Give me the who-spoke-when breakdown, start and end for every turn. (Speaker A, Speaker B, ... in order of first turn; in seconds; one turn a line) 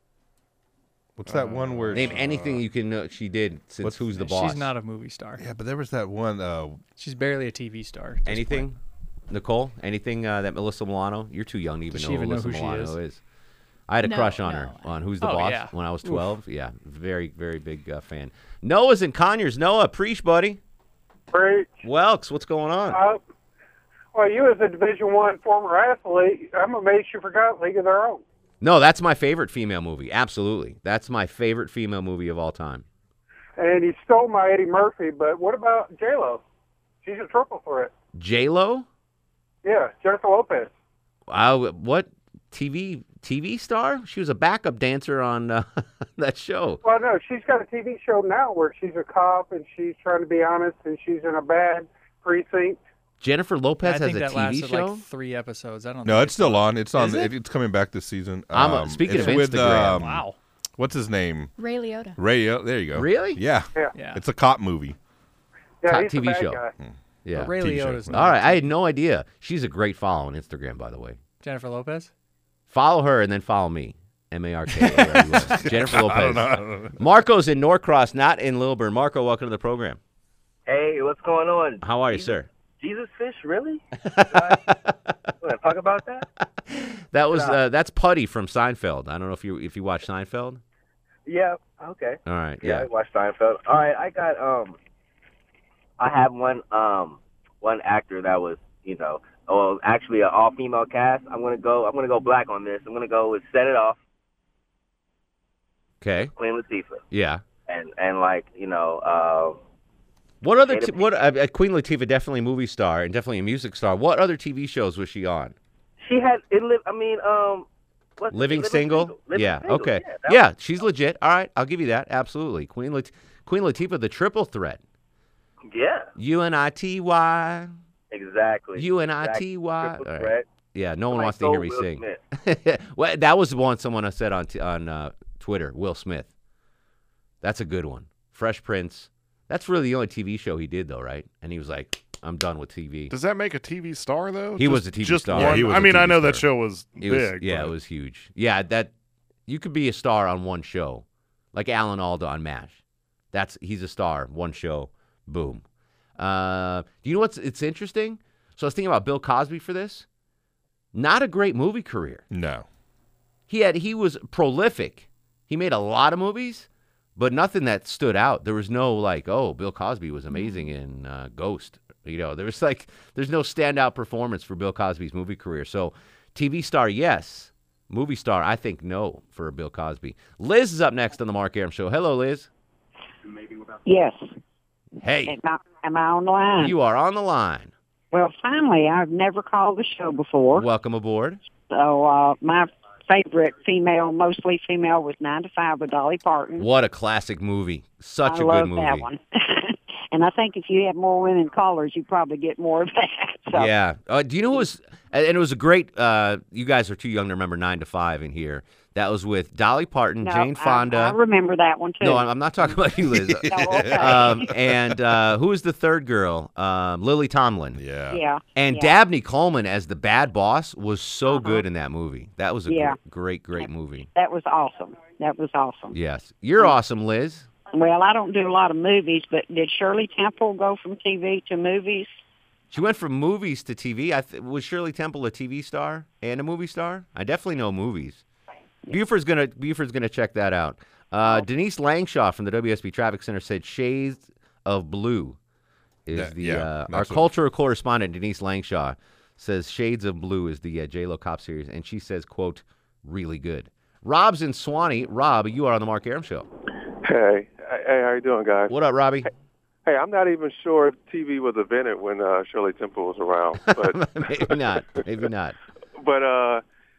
Speaker A: 1.2-2.6
Speaker B: 1.3-2.1
Speaker C: 1.9-4.7
Speaker D: 4.1-5.4
Speaker A: 5.4-6.8
Speaker D: 7.0-8.7
Speaker C: 8.2-8.8
Speaker C: 9.3-13.2
Speaker D: 11.9-13.0
Speaker C: 13.9-20.6
Speaker E: 14.0-14.9
Speaker D: 15.2-16.3
Speaker F: 21.3-21.8
Speaker C: 21.8-23.0
Speaker F: 22.9-23.2
Speaker F: 24.1-28.2
Speaker C: 28.6-32.8
Speaker F: 33.6-36.4
Speaker F: 37.0-37.9
Speaker C: 38.1-38.9
Speaker F: 39.6-40.7
Speaker C: 41.3-45.6
Speaker C: 46.2-46.8
Speaker F: 46.8-52.8
Speaker C: 53.2-55.0
Speaker D: 53.8-57.3
Speaker A: 56.0-60.2
Speaker C: 58.5-60.1
Speaker D: 59.1-60.4
Speaker A: 60.8-61.5
Speaker E: 61.6-62.2
Speaker A: 62.2-65.0
Speaker C: 62.9-63.4
Speaker D: 63.9-64.2
Speaker F: 65.8-66.7
Speaker C: 65.9-66.6
Speaker C: 67.2-71.2
Speaker D: 67.3-68.7
Speaker A: 67.5-68.2
Speaker D: 71.4-72.1
Speaker C: 72.7-80.0
Speaker A: 74.7-76.9
Speaker G: 80.7-84.6
Speaker C: 81.8-82.5
Speaker C: 84.0-84.9
Speaker G: 85.4-86.2
Speaker C: 86.7-90.6
Speaker G: 87.3-87.6
Speaker G: 91.2-94.8
Speaker C: 92.2-92.9
Speaker G: 96.0-104.0
Speaker C: 106.0-106.3
Speaker G: 106.3-107.0
Speaker C: 107.1-107.4
Speaker G: 107.7-109.6
Speaker C: 110.4-115.5
Speaker G: 110.5-111.2
Speaker G: 116.0-117.7
Speaker G: 118.2-120.4
Speaker C: 118.3-124.8
Speaker G: 125.7-126.1
Speaker C: 126.2-127.7
Speaker G: 128.1-130.4
Speaker C: 128.8-136.3
Speaker G: 131.1-132.2
Speaker C: 137.4-143.1
Speaker B: 143.1-147.7
Speaker C: 144.6-148.9
Speaker A: 145.3-146.2
Speaker C: 149.5-152.8
Speaker C: 153.3-155.6
Speaker C: 156.2-160.1
Speaker C: 160.9-162.2
Speaker A: 162.3-162.7
Speaker C: 163.5-182.5
Speaker E: 170.3-170.7
Speaker H: 183.8-184.3
Speaker C: 185.0-185.3
Speaker H: 185.2-186.7
Speaker C: 186.6-187.7
Speaker H: 188.1-190.7
Speaker C: 190.6-191.4
Speaker H: 191.7-196.7
Speaker C: 196.6-199.1
Speaker H: 198.2-203.7
Speaker C: 203.5-211.1
Speaker H: 210.2-212.8
Speaker C: 212.0-217.8
Speaker A: 213.0-215.1
Speaker H: 213.5-214.3
Speaker A: 217.8-218.2
Speaker H: 218.1-218.9
Speaker C: 218.5-224.1
Speaker H: 221.3-221.6
Speaker H: 222.7-223.0
Speaker H: 223.5-225.9
Speaker C: 225.9-227.5
Speaker H: 227.7-232.1
Speaker C: 232.7-238.2
Speaker C: 238.9-245.4
Speaker C: 246.1-256.4
Speaker A: 246.1-247.3
Speaker I: 257.0-258.7
Speaker C: 258.7-259.3
Speaker I: 259.9-265.0
Speaker C: 263.6-265.5
Speaker I: 266.0-266.6